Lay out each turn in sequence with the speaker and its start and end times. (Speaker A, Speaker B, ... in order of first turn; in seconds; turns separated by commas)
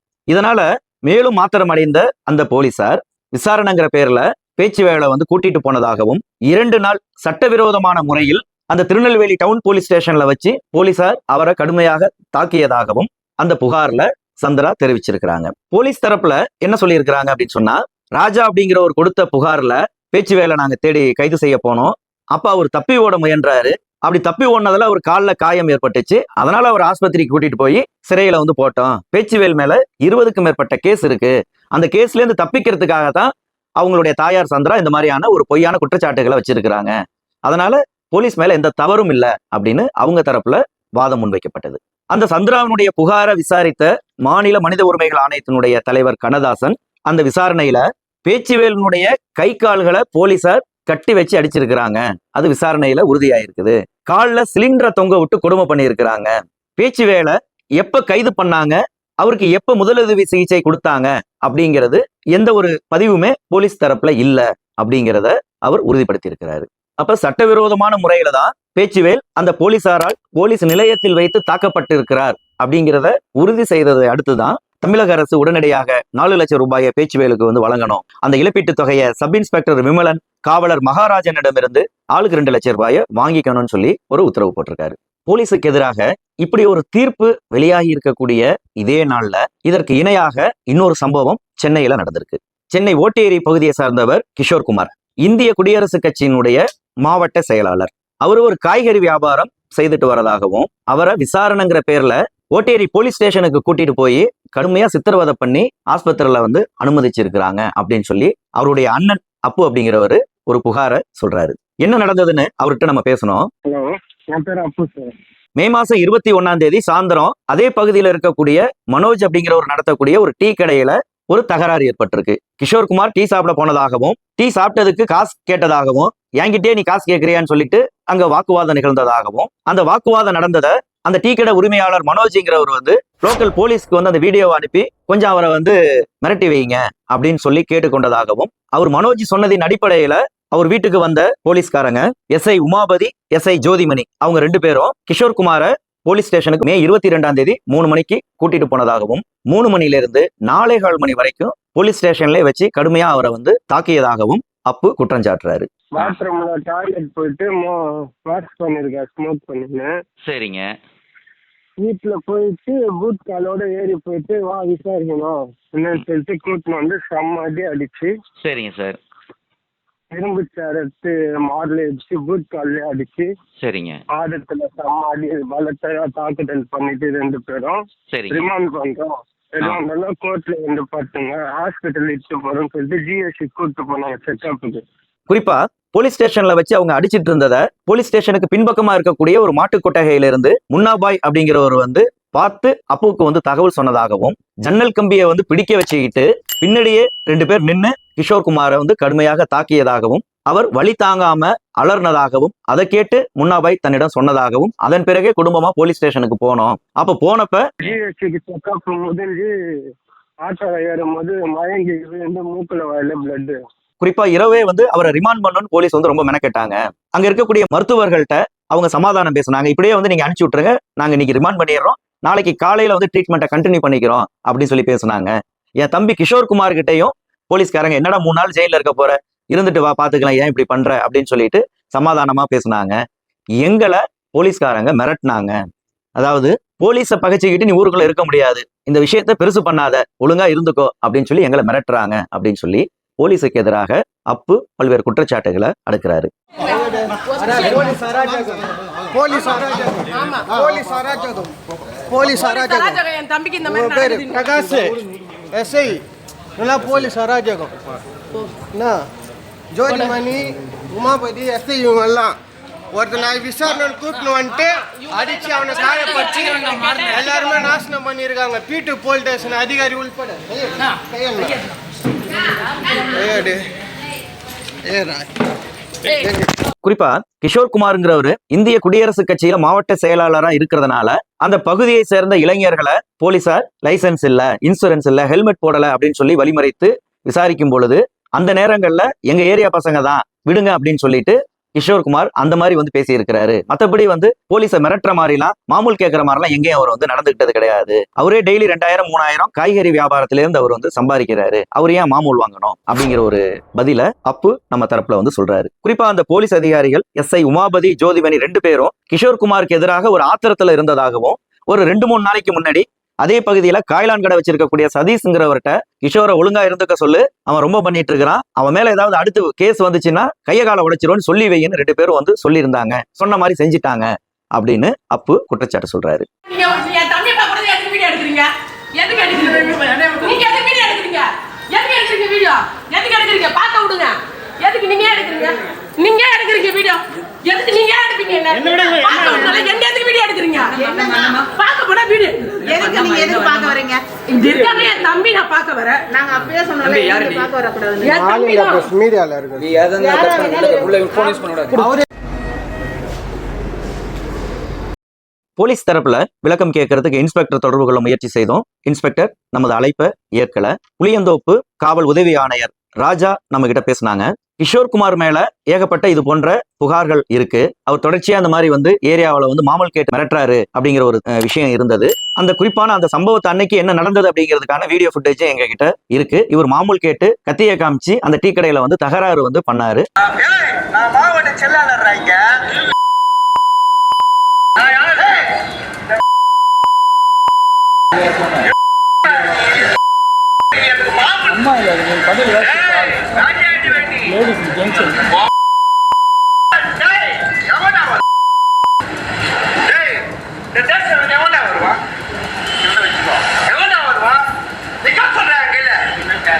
Speaker A: 0.3-36.9, Speaker A: 37.5-113.5, Speaker B: 113.7-115.1, Speaker A: 115.6-155.7, Speaker B: 155.9-159.9, Speaker C: 160.2-160.7, Speaker B: 161.8-168.1, Speaker C: 168.4-169.0, Speaker B: 170.1-173.3, Speaker C: 173.6-174.0, Speaker B: 174.1-184.8, Speaker C: 178.1-178.5, Speaker A: 185.3-207.6, Speaker B: 207.8-209.9, Speaker B: 210.4-213.6, Speaker A: 214.0-232.9, Speaker A: 233.6-235.6, Speaker A: 236.2-246.3, Speaker D: 247.2-251.5, Speaker D: 252.1-253.0, Speaker E: 252.6-254.1, Speaker D: 253.7-256.0, Speaker D: 256.6-257.8, Speaker D: 258.7-259.1, Speaker D: 259.7-262.4, Speaker D: 262.9-271.6, Speaker D: 272.9-273.6, Speaker D: 274.8-275.3, Speaker D: 276.1-276.4, Speaker A: 276.8-326.3, Speaker E: 326.5-343.1, Speaker F: 340.9-341.4, Speaker F: 342.6-344.0, Speaker E: 344.3-346.1, Speaker F: 346.1-348.1, Speaker E: 348.0-348.9, Speaker D: 348.1-349.9, Speaker F: 350.0-351.6, Speaker D: 351.7-352.0, Speaker A: 355.6-380.0, Speaker C: 381.3-381.8, Speaker C: 392.9-393.4, Speaker C: 400.9-401.9, Speaker C: 405.2-405.8